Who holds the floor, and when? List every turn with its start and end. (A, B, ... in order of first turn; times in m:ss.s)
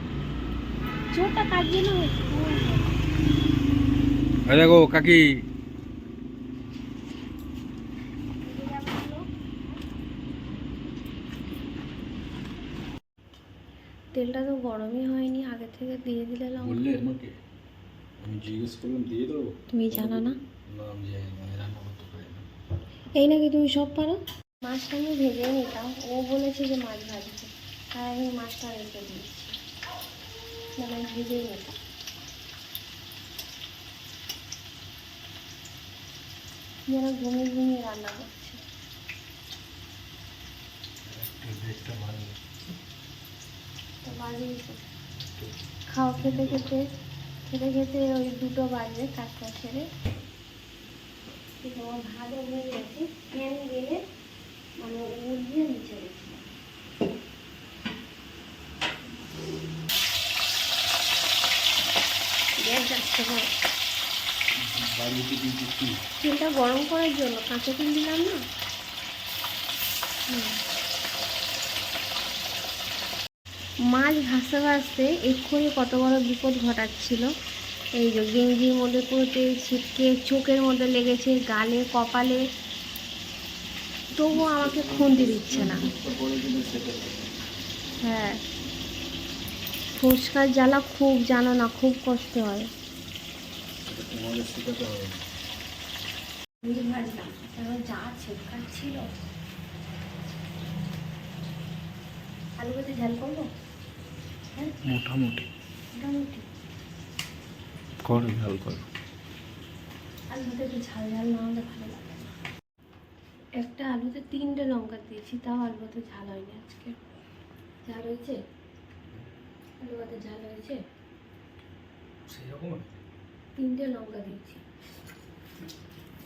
0:01.1-0:02.9 A
0:04.5-0:05.4 B
0:08.4-0:09.2 A
0:14.1-0:16.8 A
0:16.6-0:17.3 B
0:18.2-0:22.4 B
0:19.7-0:20.4 A
0:23.2-0:29.6 A
0:30.8-0:31.8 A
0:36.9-0:38.6 A
0:41.1-0:42.4 B
0:44.0-0:44.8 A
0:45.9-0:46.8 A
0:46.2-0:46.7 B
0:47.5-0:49.9 A
0:51.6-0:54.0 A
0:54.8-0:56.4 A
1:02.6-1:03.5 A
1:04.6-1:06.0 B
1:06.2-1:08.4 A
1:10.3-1:10.6 A
1:13.9-1:17.3 A
1:18.0-1:22.4 A
1:24.1-1:25.9 A
1:24.3-1:27.3 B
1:28.0-1:28.4 A
1:30.0-1:32.7 A
1:33.8-1:35.2 B
1:36.6-1:39.0 A
1:42.6-1:43.5 A
1:44.8-1:45.5 B
1:46.0-1:46.4 A
1:48.0-1:48.8 B
1:50.3-1:52.2 A
1:53.6-1:57.0 A
1:57.8-1:58.4 A
1:59.8-2:00.8 A
2:02.2-2:03.0 B
2:03.6-2:04.6 A